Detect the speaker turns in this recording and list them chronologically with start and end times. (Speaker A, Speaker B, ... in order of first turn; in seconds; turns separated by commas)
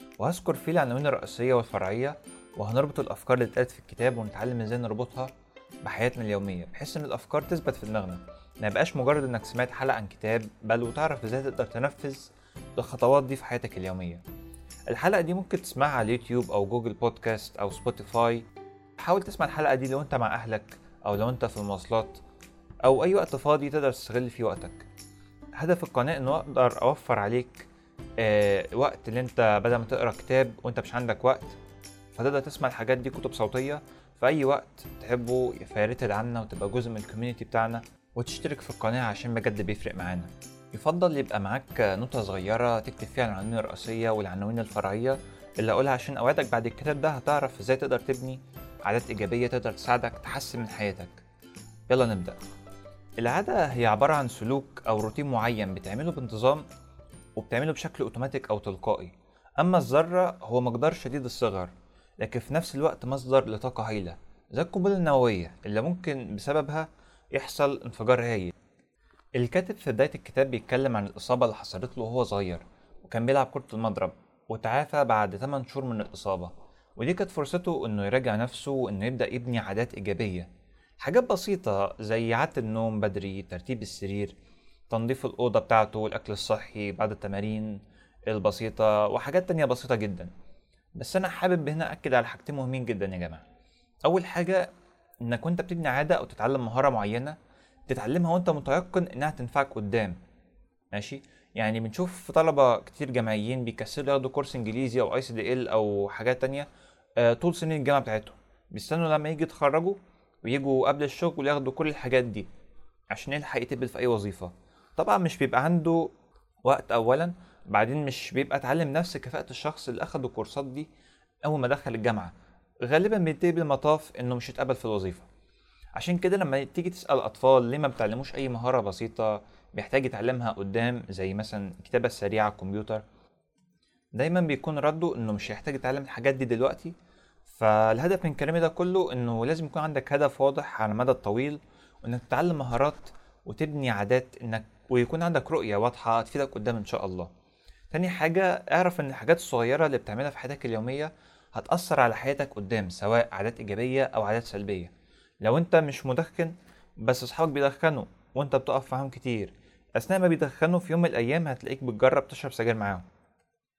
Speaker A: 0.2-5.3, Speaker A: 5.8-14.2, Speaker A: 14.9-18.4, Speaker A: 19.0-22.2, Speaker A: 22.8-24.8, Speaker A: 25.6-27.7, Speaker A: 28.2-31.6, Speaker A: 32.1-51.2, Speaker A: 51.9-52.4, Speaker A: 53.2-56.7, Speaker A: 57.4-68.5, Speaker A: 69.4-80.5, Speaker A: 81.0-84.3, Speaker A: 84.9-90.3, Speaker A: 91.0-93.4, Speaker A: 94.0-94.7, Speaker A: 95.2-97.4, Speaker A: 97.9-100.2, Speaker A: 100.9-106.7, Speaker A: 107.2-112.5, Speaker A: 113.1-116.1, Speaker A: 116.7-120.9, Speaker A: 121.4-122.3, Speaker A: 122.8-125.3, Speaker A: 126.0-133.0, Speaker A: 134.2-136.9, Speaker A: 137.5-147.3, Speaker A: 147.9-163.1